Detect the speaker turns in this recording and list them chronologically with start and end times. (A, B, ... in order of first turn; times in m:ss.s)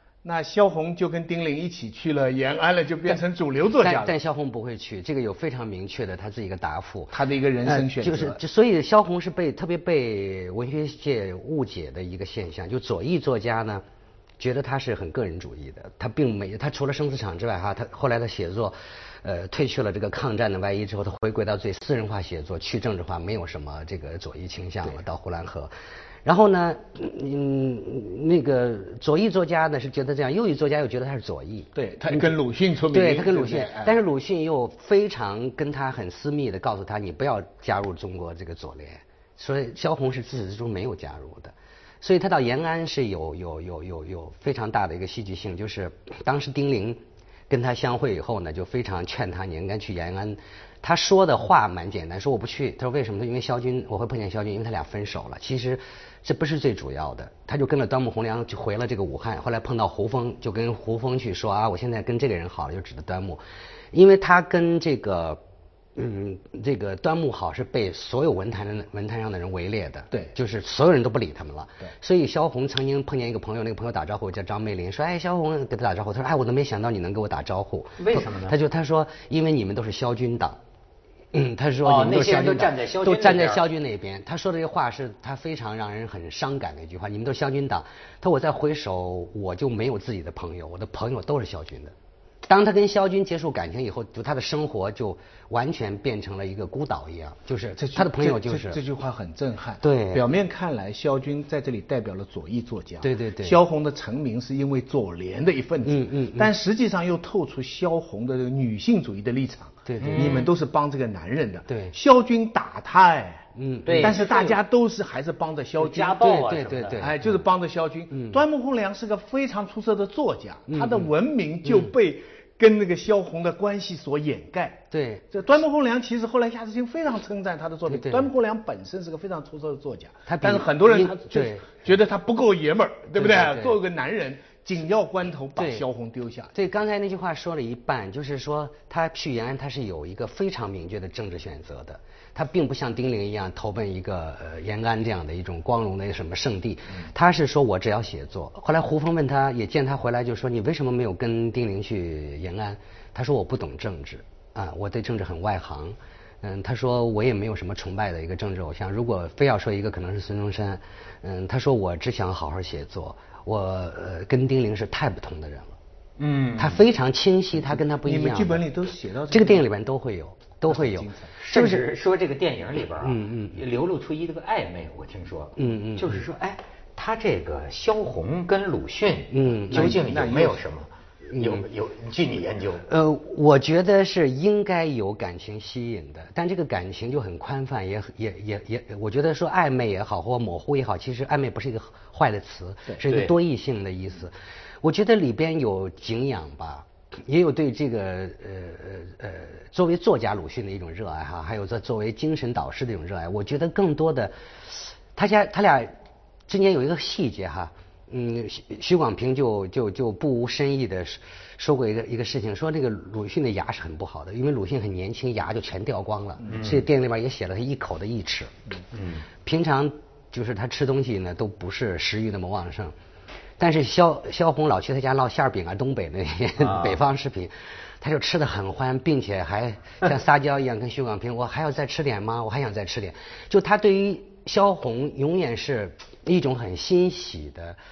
0:00.2-0:04.1 A
0:03.7-0:13.8 B
0:07.1-0:08.4 A
0:14.4-0:25.7 B
0:26.2-0:32.3 B
0:31.7-0:34.0 A
0:32.9-1:05.4 B
1:05.9-1:20.6 B
1:18.0-1:18.6 C
1:21.3-1:38.8 B
1:21.8-1:23.6 C
1:37.8-1:56.2 A
1:39.8-1:40.3 B
1:43.0-1:43.6 B
1:45.8-1:46.5 B
1:49.8-1:50.5 B
1:50.0-1:50.5 C
1:51.7-1:51.9 B
1:53.5-1:54.2 B
1:53.8-1:54.6 C
1:55.8-1:57.1 C
1:56.2-1:57.4 B
1:57.0-2:16.5 A
1:58.1-1:58.4 B
2:00.7-2:01.1 B
2:01.6-2:01.9 B
2:04.9-2:05.2 B
2:07.9-2:08.3 B
2:10.3-2:11.9 B
2:13.1-2:13.8 B
2:15.6-2:15.8 B
2:16.5-2:45.8 B
2:46.2-2:46.8 C
2:46.6-2:48.7 B
2:47.6-2:49.7 A
2:49.3-2:51.9 B
2:50.6-2:51.3 A
2:51.4-3:02.8 C
2:53.0-2:53.6 B
2:55.6-2:56.2 B
2:59.3-3:00.0 B
2:59.7-3:00.6 A
3:01.3-3:01.6 B
3:02.8-3:26.0 B
3:13.0-3:13.3 C
3:26.5-3:38.5 B
3:36.5-3:36.8 C
3:38.9-3:39.3 C
3:39.4-3:42.9 B
3:43.6-3:57.8 B
3:46.6-3:47.0 C